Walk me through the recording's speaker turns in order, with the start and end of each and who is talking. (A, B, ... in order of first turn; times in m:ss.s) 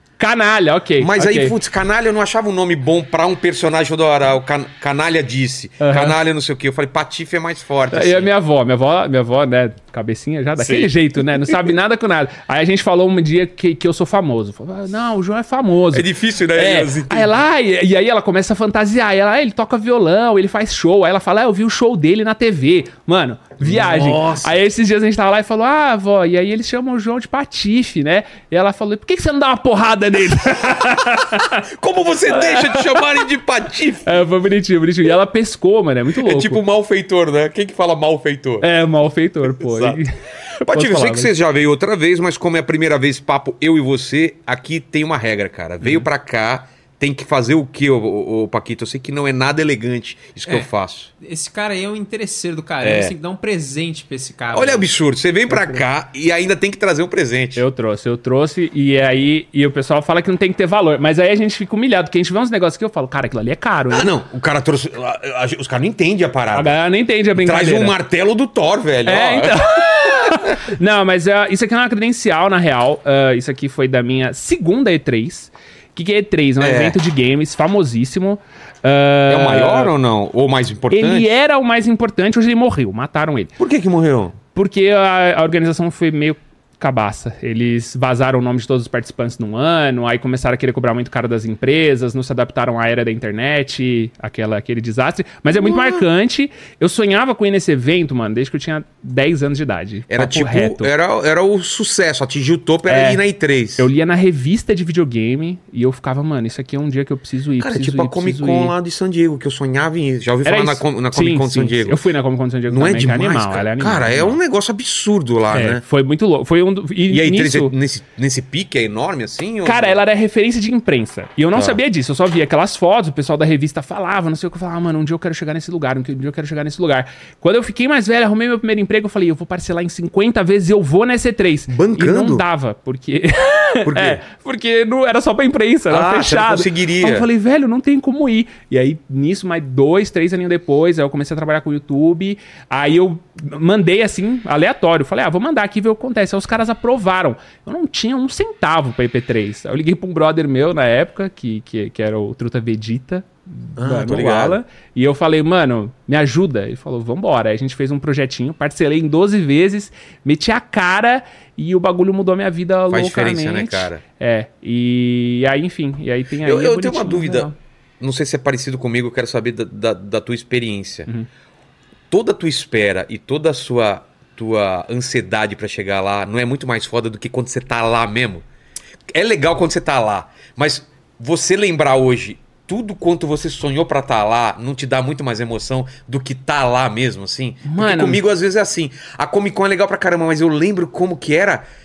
0:00.2-0:01.6 A
0:01.0-0:08.3 B
0:05.8-0:06.2 A
0:07.9-0:31.6 A
0:10.6-0:10.9 B
0:15.9-0:17.4 B
0:23.6-0:24.6 B
0:31.1-0:34.1 B
0:32.3-0:33.2 A
0:34.0-0:36.6 A
0:36.2-0:38.6 B
0:38.6-0:40.1 A
0:39.6-0:40.0 B
0:40.6-0:41.3 A
0:40.7-0:51.1 B
0:51.2-0:54.9 C
0:52.8-0:53.1 B
0:54.5-0:57.6 B
0:55.5-0:55.8 A
0:57.6-1:04.1 A
1:03.9-1:06.7 B
1:06.5-1:07.9 A
1:07.4-1:09.6 B
1:09.0-1:19.9 A
1:10.2-1:10.5 B
1:16.6-1:17.0 B
1:19.3-1:21.3 B
1:20.9-1:23.6 A
1:23.6-1:24.3 B
1:24.5-1:40.9 A
1:35.5-1:36.0 B
1:40.1-1:43.9 B
1:42.9-1:43.2 A
1:43.8-1:48.7 A
1:47.6-1:52.0 B
1:50.4-1:54.4 A
1:52.7-1:55.8 B
1:55.5-1:57.7 A
1:57.1-2:00.0 B
1:59.6-2:47.5 A
2:01.5-2:01.8 B
2:11.7-2:12.4 B
2:13.8-2:14.2 B
2:15.9-2:17.3 B
2:33.8-2:34.6 B
2:42.9-2:44.0 B
2:46.4-2:51.1 B
2:52.1-2:58.5 B
2:59.1-3:11.6 B
3:07.6-3:08.2 A